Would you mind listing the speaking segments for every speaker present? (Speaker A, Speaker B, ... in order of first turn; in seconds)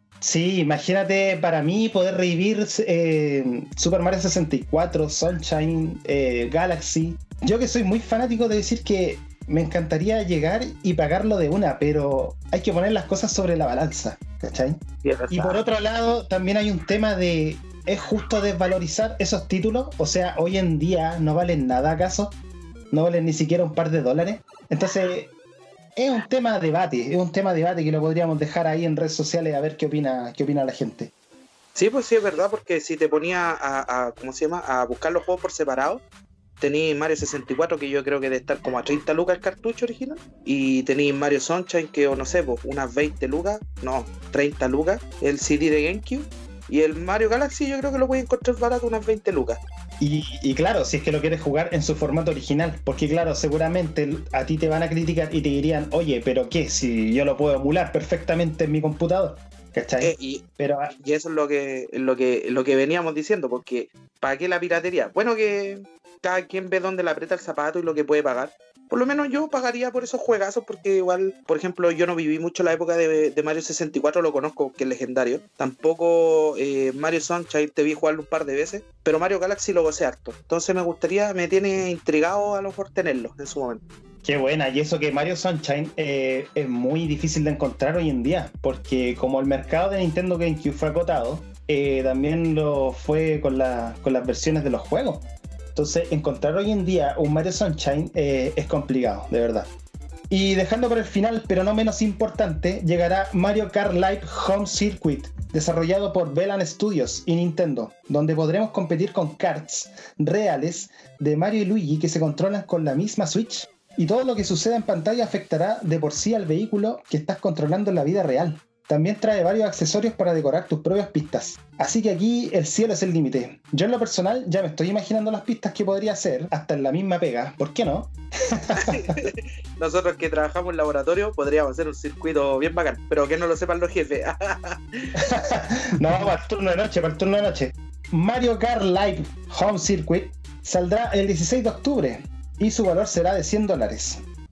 Speaker A: 0.2-22.4, 22.9-25.3, 25.9-31.1, 50.0-60.9, 84.2-99.7, 100.3-129.2, 135.2-144.2
Speaker B: 15.0-15.6, 31.7-36.0, 36.6-49.6, 60.0-60.5, 61.0-83.8, 128.8-135.1